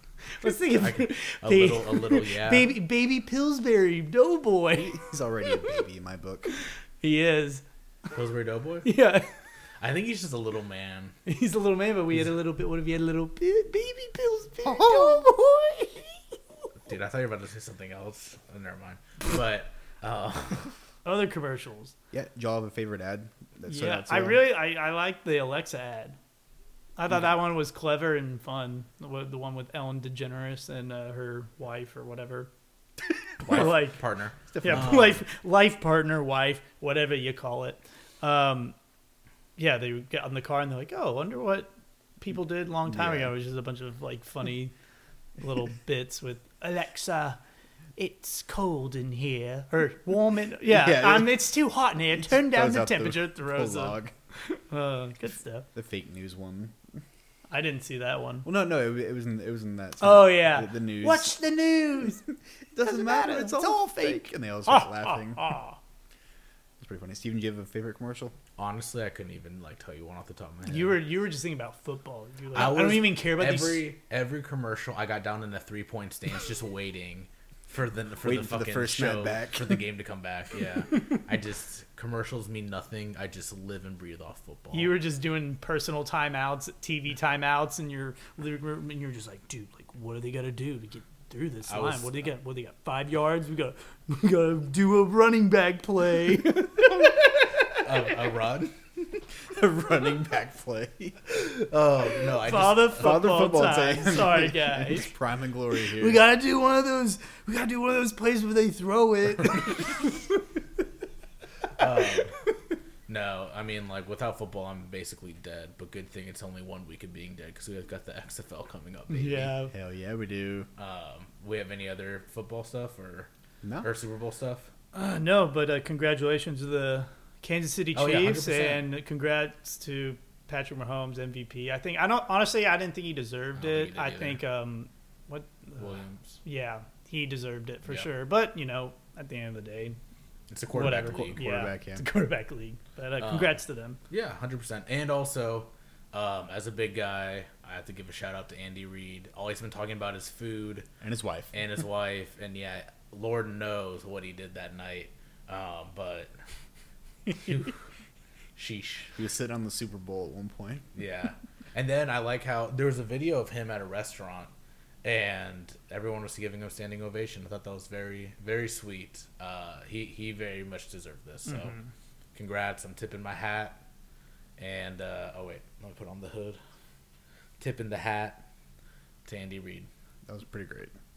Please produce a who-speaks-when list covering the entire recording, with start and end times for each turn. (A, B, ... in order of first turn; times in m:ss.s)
0:00.4-0:05.8 A
0:00.4-0:02.7 B
0:04.7-0:06.5 C
0:07.0-0:07.6 A
0:08.1-0:08.9 B
0:08.8-0:09.3 A
0:09.8-0:11.2 B
0:11.3-0:16.4 A
0:14.6-0:15.3 C
0:16.8-0:20.8 B
0:21.0-0:22.0 A
0:22.1-0:24.5 C
0:23.7-0:26.2 A
0:27.0-0:32.5 A
0:33.4-0:34.0 A
0:33.4-0:35.2 B
0:34.5-0:35.1 C
0:34.6-0:38.8 A
0:39.6-0:41.7 A
0:42.2-0:44.7 A
0:42.9-0:43.3 C
0:45.4-0:47.4 A
0:48.0-0:55.7 A
0:50.6-0:51.5 C
0:52.2-0:54.1 C
0:55.8-0:56.8 C
0:57.5-0:58.5 A
0:58.4-1:01.4 C
1:00.0-1:02.2 A
1:02.7-1:05.6 C
1:02.8-1:05.8 A
1:06.8-1:08.4 C
1:08.6-1:11.0 B
1:10.7-1:13.9 A
1:12.5-1:24.9 B
1:18.2-1:19.8 C
1:24.7-1:37.2 A
1:31.7-1:32.3 B
1:37.8-1:38.8 B
1:39.4-1:41.2 C
1:41.2-1:43.2 B
1:42.4-1:45.1 A
1:42.9-1:46.2 C
1:45.9-1:50.2 A
1:51.8-1:52.4 B
1:53.1-1:59.6 B
1:59.1-1:59.7 A
1:59.7-2:00.7 C
2:00.8-2:03.3 B
2:03.8-2:04.7 B
2:04.9-2:20.0 A
2:07.9-2:08.8 B
2:13.6-2:14.4 B
2:15.8-2:16.4 B
2:20.5-2:21.4 B
2:20.7-2:24.0 A
2:20.8-2:22.0 C
2:23.2-2:30.9 B
2:31.0-2:31.5 C
2:31.5-2:36.3 B
2:37.3-2:37.8 B
2:38.6-2:39.2 B
2:39.2-2:40.9 C
2:41.0-2:44.5 B
2:45.0-2:51.8 B
2:51.5-2:51.9 A
2:52.4-2:53.8 B
2:54.6-2:56.6 B
2:57.6-2:58.4 B
2:59.3-2:59.9 B
3:00.3-3:00.9 C